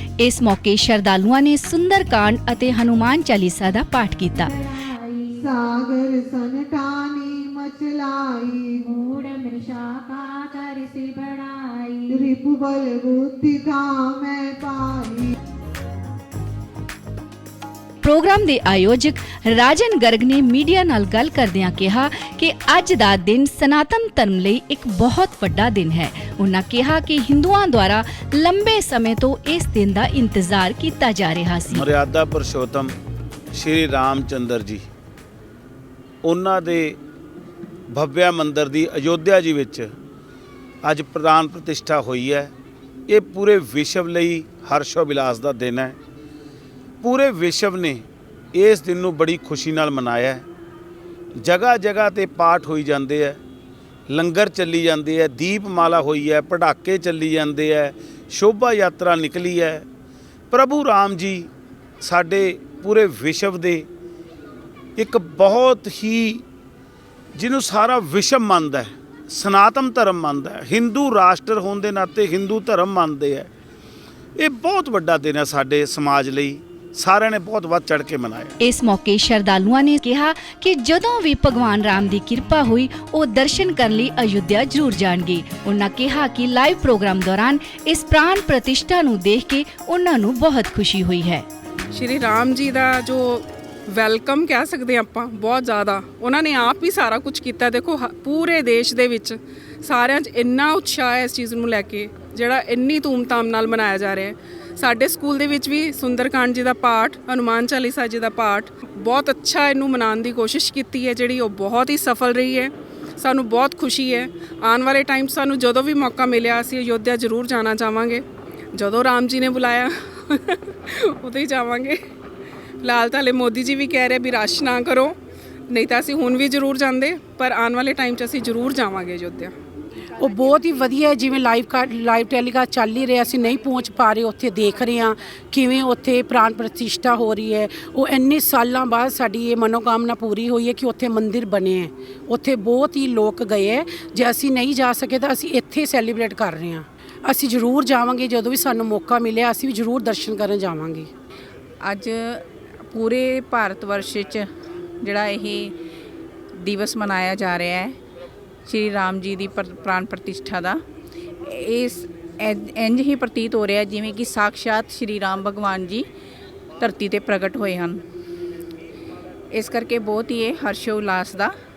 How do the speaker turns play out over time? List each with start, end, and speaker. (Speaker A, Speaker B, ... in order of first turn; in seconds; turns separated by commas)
Speaker A: 0.2-4.5, Speaker B: 4.4-5.4, Speaker C: 5.5-8.8, Speaker B: 8.9-12.1, Speaker C: 12.1-15.2, Speaker A: 18.0-31.8, Speaker D: 31.7-32.9, Speaker D: 33.5-34.9, Speaker D: 36.2-37.0, Speaker D: 37.9-39.9, Speaker D: 40.8-42.5, Speaker D: 43.1-46.0, Speaker D: 47.0-50.4, Speaker D: 51.4-53.4, Speaker D: 54.1-59.9, Speaker D: 60.5-61.5, Speaker D: 62.0-63.9, Speaker D: 65.0-66.4, Speaker D: 67.3-73.5, Speaker D: 74.4-78.5, Speaker A: 78.6-91.5, Speaker E: 91.9-118.2, Speaker E: 118.7-122.0, Speaker E: 122.8-125.1, Speaker E: 125.7-129.5, Speaker F: 130.2-151.1, Speaker G: 151.8-154.5, Speaker G: 155.0-155.7, Speaker G: 156.6-158.0, Speaker G: 158.7-160.8, Speaker G: 161.4-166.1, Speaker G: 166.8-168.0, Speaker G: 169.5-171.5